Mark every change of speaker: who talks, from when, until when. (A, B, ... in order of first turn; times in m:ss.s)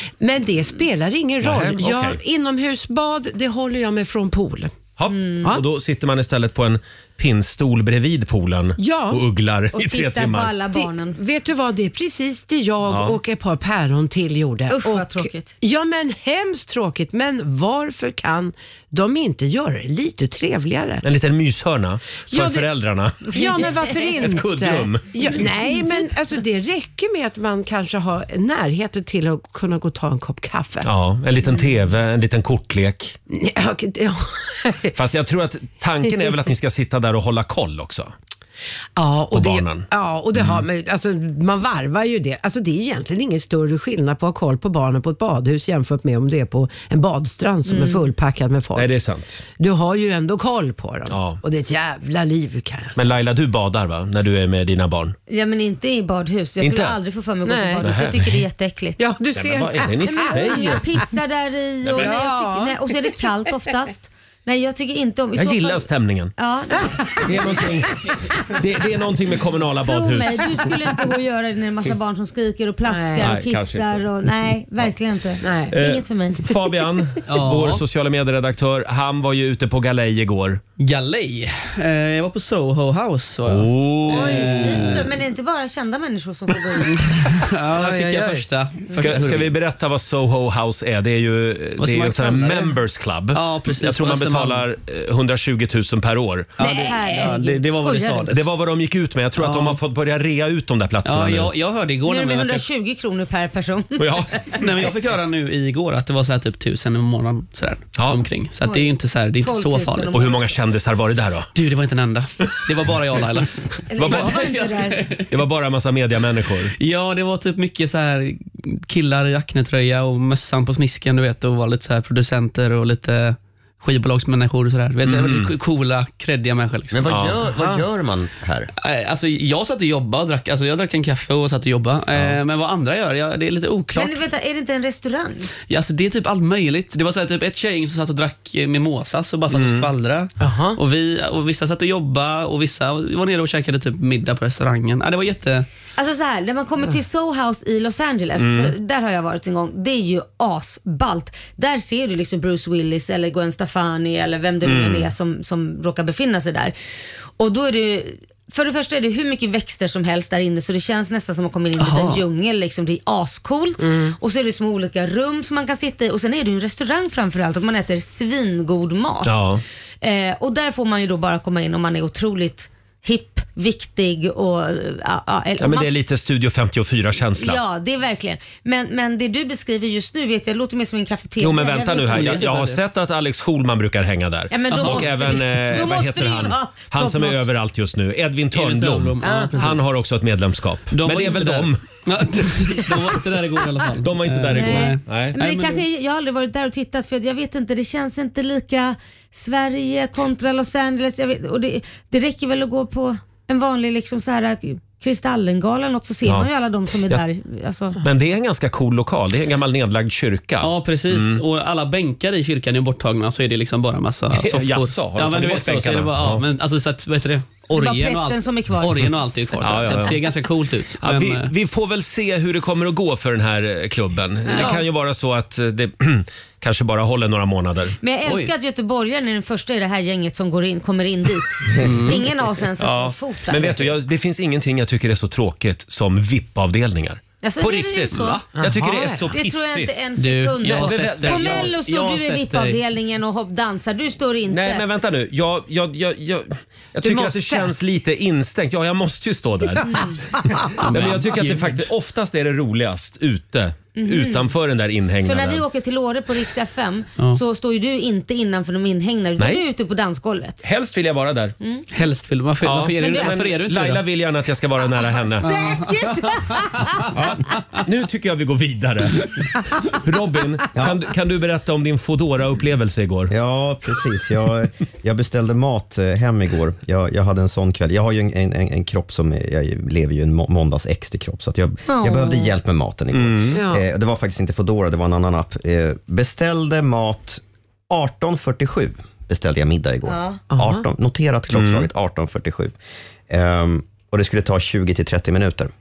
0:00.2-0:04.7 A
0:01.4-0:02.2 B
0:05.0-0:10.5 B
0:05.1-0:05.4 C
0:08.8-0:09.2 A
0:09.7-0:11.2 C
0:10.7-0:21.0 A
0:12.9-0:13.2 B
0:14.7-0:15.5 C
0:21.0-0:25.5 B
0:22.3-0:22.7 A
0:23.3-0:30.9 A
0:30.8-0:33.2 B
0:33.3-0:35.0 A
0:34.9-0:38.1 B
0:39.0-0:48.9 A
0:39.3-0:40.6 B
0:47.6-0:48.1 C
0:48.8-0:49.4 B
0:49.6-0:53.0 A
0:51.1-0:51.4 B
0:53.0-0:55.2 B
0:55.3-0:59.0 C
0:56.6-0:57.0 B
0:57.4-0:58.3 A
0:57.8-0:58.3 B
0:59.0-1:01.0 A
0:59.3-1:00.8 B
1:00.1-1:07.0 C
1:01.9-1:02.2 B
1:01.9-1:03.2 A
1:05.4-1:06.3 B
1:07.0-1:08.4 A
1:07.2-1:08.0 B
1:08.5-1:10.7 B
1:09.8-1:16.5 C
1:12.9-1:13.3 A
1:13.2-1:14.0 B
1:15.4-1:15.8 A
1:15.7-1:20.6 B
1:17.3-1:17.8 D
1:20.8-1:25.0 D
1:23.5-1:25.1 B
1:24.1-1:27.0 C
1:26.8-1:29.5 D
1:27.6-1:28.5 A
1:28.9-1:36.6 B
1:31.8-1:32.8 D
1:33.3-1:34.6 D
1:36.6-1:38.4 D
1:36.6-1:38.3 C
1:38.3-1:41.5 B
1:39.4-1:39.8 D
1:41.0-1:42.6 D
1:42.0-1:44.3 C
1:44.0-1:44.6 B
1:44.6-1:50.2 D
1:48.0-1:48.2 B
1:48.6-1:50.4 C
1:50.1-1:51.5 B
1:51.5-1:55.3 D
1:53.9-1:55.0 C
1:54.0-1:54.5 B
1:55.3-1:56.7 B
1:56.8-2:07.8 D
2:05.0-2:05.5 B
2:06.9-2:08.7 E
2:07.1-2:07.4 B
2:08.8-2:14.2 D
2:13.9-2:15.5 C
2:15.7-2:25.7 D
2:19.5-2:19.9 B
2:20.4-2:20.8 A
2:26.0-2:36.8 C
2:28.4-2:28.7 B
2:34.6-2:35.1 B
2:37.4-2:49.4 C
2:41.8-2:42.2 D
2:43.8-2:44.1 A
2:49.2-2:49.6 B
2:50.0-2:55.9 C
2:55.6-2:57.6 B
2:57.4-3:02.4 C
3:01.4-3:11.8 B
3:02.1-3:02.8 D
3:04.5-3:07.4 C
3:04.7-3:05.3 D
3:08.5-3:09.9 D
3:10.9-3:15.8 D
3:14.0-3:15.4 B
3:14.5-3:28.0 C
3:28.0-3:31.4 B
3:30.6-3:41.5 D
3:34.4-3:36.4 B
3:37.7-3:39.0 C
3:39.6-3:40.2 B
3:39.7-3:40.1 C
3:41.0-3:48.0 B
3:44.5-3:44.8 C
3:44.5-3:44.8 D
3:48.0-3:53.8 C
3:48.2-3:48.5 D
3:51.8-3:52.2 D
3:52.8-4:00.0 B
3:57.4-3:58.4 C
3:58.1-3:58.4 D
3:58.5-3:59.3 A
3:59.3-4:04.8 C
4:00.2-4:02.8 D
4:00.6-4:01.8 B
4:04.5-4:10.1 B
4:07.0-4:07.7 A
4:10.7-4:15.6 B
4:10.8-4:11.8 D
4:14.0-4:14.5 C
4:15.2-4:20.6 C
4:20.6-4:21.5 B
4:21.6-4:21.9 C
4:21.9-4:24.0 D
4:22.6-4:25.5 B
4:23.0-4:23.3 C
4:25.4-4:27.0 C
4:25.4-4:26.5 D
4:27.1-4:33.3 B
4:33.3-4:52.7 E
4:41.9-4:42.5 C
4:43.1-4:43.6 B
4:43.5-4:43.8 A
4:50.0-4:50.4 C
4:50.5-4:50.8 A
4:51.5-4:51.9 B
4:53.3-4:55.7 E